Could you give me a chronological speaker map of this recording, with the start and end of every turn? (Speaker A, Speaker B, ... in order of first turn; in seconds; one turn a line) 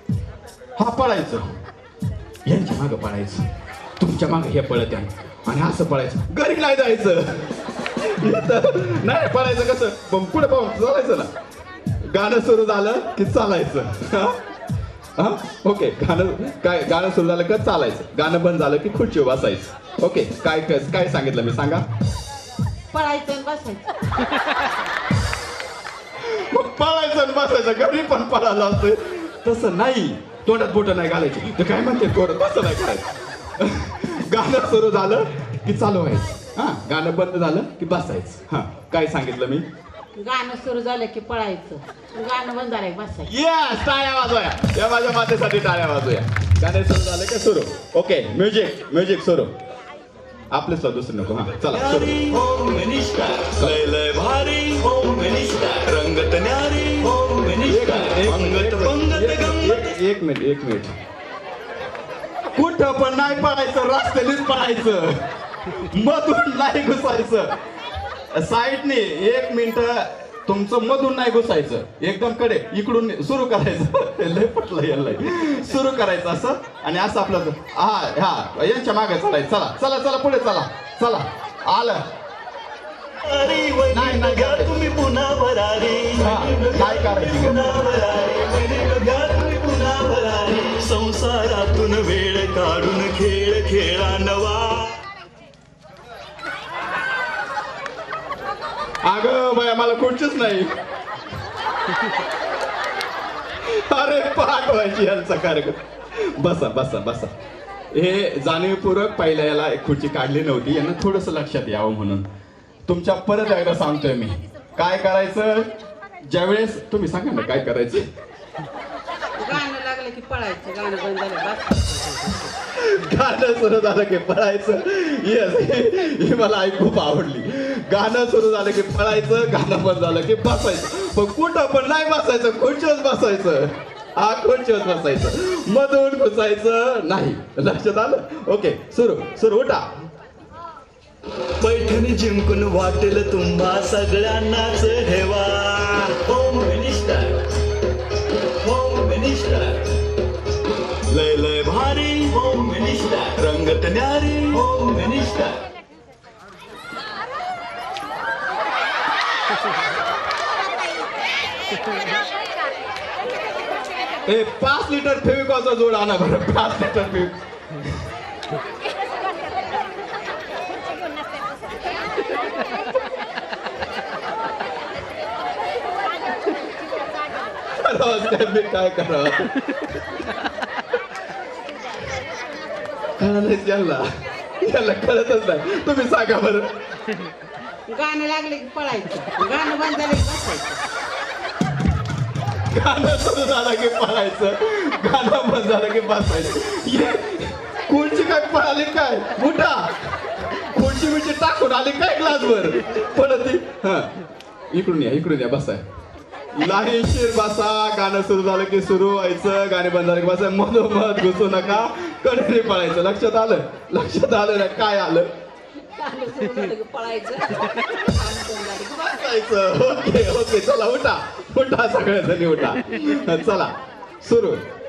Speaker A: 0.8-1.4
Speaker A: 2.5-3.4
Speaker A: 4.0-7.5
Speaker A: 8.1-11.3
Speaker A: 12.0-14.4
Speaker A: 15.2-21.8
Speaker B: 22.9-24.0
Speaker A: 26.2-33.0
Speaker A: 33.6-39.6
Speaker B: 40.2-43.3
Speaker A: 43.2-49.5
Speaker A: 50.5-52.2
Speaker C: 51.7-59.9
Speaker A: 53.6-53.9
Speaker A: 57.6-60.9
Speaker A: 62.5-67.5
Speaker A: 68.3-82.0
Speaker C: 83.2-95.0
Speaker A: 83.9-84.7
Speaker A: 86.2-87.8
Speaker A: 99.0-100.7
Speaker A: 103.6-107.3
Speaker A: 107.9-112.2
Speaker A: 112.9-115.7
Speaker A: 116.3-118.1
Speaker B: 119.4-122.3
Speaker A: 122.6-139.8
Speaker C: 141.6-147.5
Speaker C: 148.6-150.0
Speaker C: 151.1-155.6
Speaker A: 164.2-167.4
Speaker A: 177.8-179.6
Speaker A: 183.2-184.0
Speaker A: 184.6-186.7
Speaker B: 187.9-190.8
Speaker A: 192.7-204.1
Speaker A: 204.7-205.8
Speaker A: 206.5-215.3
Speaker B: 215.8-219.1
Speaker A: 219.0-224.6